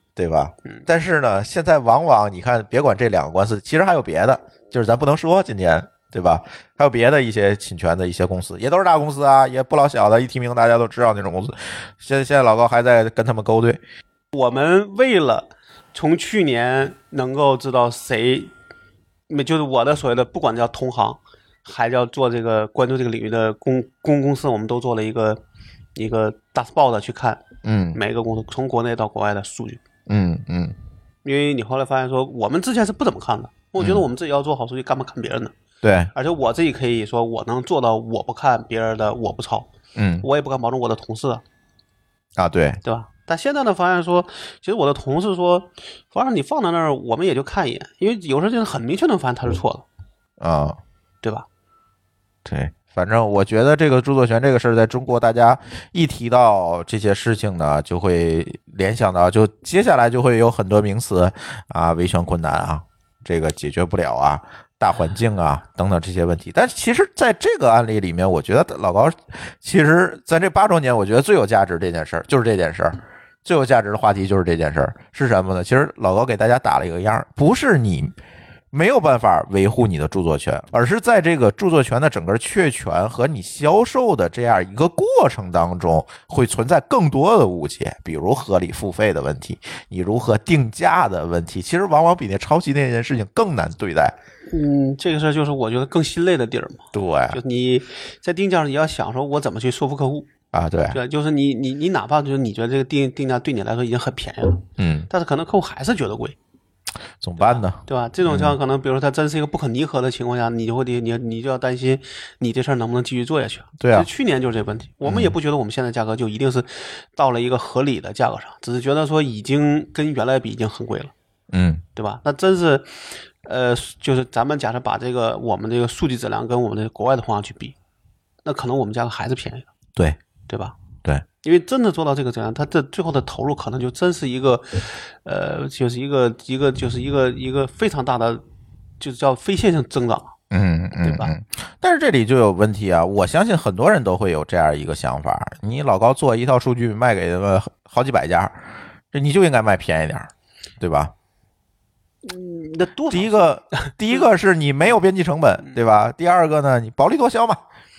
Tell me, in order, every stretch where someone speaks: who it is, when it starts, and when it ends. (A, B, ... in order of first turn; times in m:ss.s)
0:00.2-0:13.8 A
0:14.3-0:18.5 B
0:19.3-0:25.4 B
0:26.0-0:27.4 B
0:27.6-0:28.0 A
0:27.9-0:29.8 B
0:30.1-0:30.8 A
0:31.2-0:35.5 B
0:33.8-0:34.0 A
0:35.8-0:36.1 A
0:36.1-0:39.7 B
0:39.9-0:40.3 A
0:40.2-0:41.4 B
0:42.4-0:42.8 A
0:42.8-0:49.8 B
0:50.4-0:50.8 A
0:52.4-1:18.1 A
1:18.7-1:34.1 A
1:34.5-1:40.3 B
1:36.9-1:37.4 A
1:40.5-1:41.0 A
1:40.9-1:46.4 B
1:44.8-1:45.1 A
1:47.2-1:48.6 A
1:47.4-2:01.1 B
1:53.8-1:54.1 A
1:55.0-1:55.3 A
2:01.5-2:01.8 A
2:02.0-2:07.7 B
2:08.4-2:09.7 B
2:10.5-2:10.7 B
2:11.4-2:18.4 B
2:19.0-2:20.3 B
2:20.5-2:28.6 A
2:21.0-2:21.3 B
2:29.1-2:31.1 A
2:32.2-2:34.2 B
2:33.1-2:37.6 A